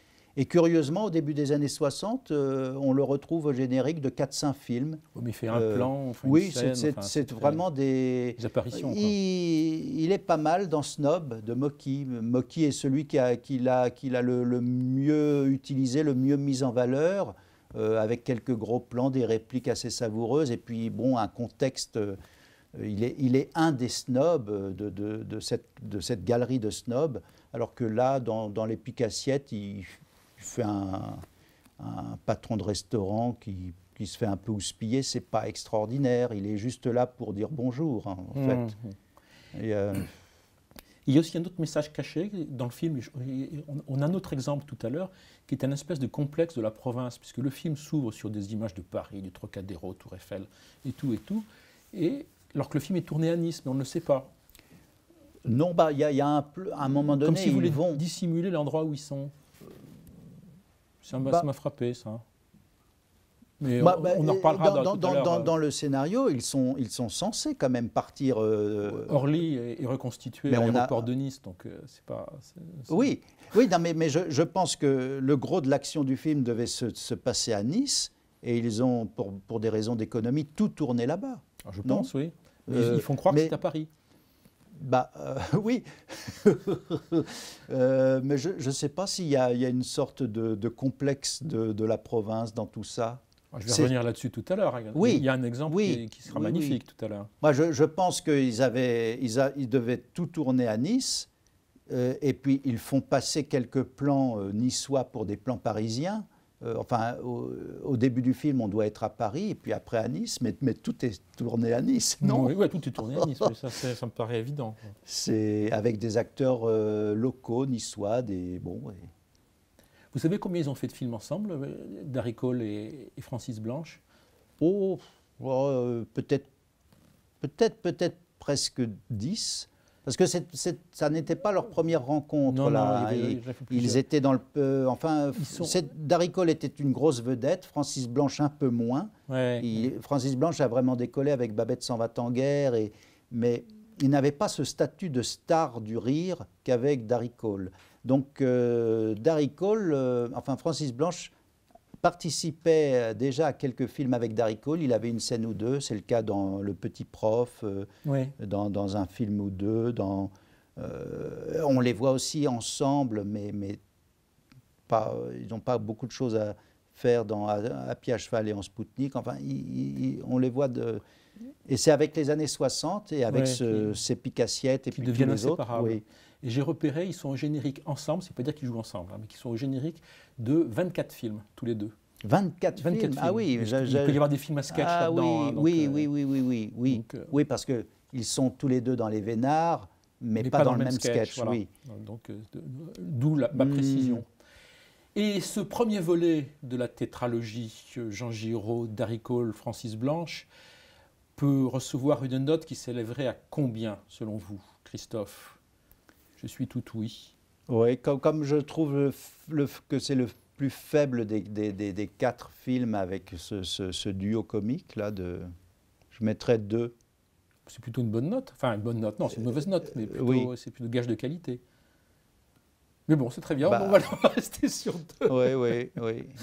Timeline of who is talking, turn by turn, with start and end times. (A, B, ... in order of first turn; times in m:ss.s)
0:00.4-0:22.2 A
0:05.1-0:07.6 B
0:08.4-0:09.1 B
0:22.7-0:31.2 A
0:31.8-0:38.7 A
0:38.3-0:39.0 B
0:39.5-0:40.1 A
0:41.0-0:54.3 B
0:55.4-0:58.0 A
0:57.2-0:59.3 B
1:01.0-1:02.2 B
1:01.1-1:01.4 A
1:03.6-1:05.5 B
1:03.8-1:09.2 A
1:09.0-1:13.0 B
1:10.5-1:11.1 A
1:12.9-1:22.1 A
1:21.6-1:23.9 B
1:22.7-1:23.6 A
1:24.7-1:33.9 A
1:33.5-1:37.3 B
1:34.9-1:36.8 A
1:37.4-1:41.3 A
1:41.9-1:53.5 A
1:52.2-1:54.9 B
1:55.0-1:59.1 A
2:00.1-2:04.0 B
2:04.6-2:06.5 A
2:07.4-2:31.3 A
2:12.5-2:14.0 B
2:15.4-2:15.8 B
2:19.3-2:19.8 B
2:32.0-2:43.8 A
2:38.0-2:38.3 B
2:44.9-2:51.0 A
2:51.6-2:56.0 A
2:53.3-2:53.9 B
2:54.9-3:01.9 B
3:02.2-3:11.7 A
3:02.8-3:06.1 B
3:06.9-3:07.3 B
3:10.4-3:14.3 B
3:13.5-3:14.2 A
3:15.1-3:20.5 B
3:21.4-3:25.6 B
3:26.4-3:27.3 B
3:27.7-3:35.5 A
3:36.1-3:36.9 A
3:37.7-3:41.6 B
3:39.8-3:40.5 A
3:43.1-3:45.7 B
3:43.6-3:44.0 A
3:45.3-3:46.3 A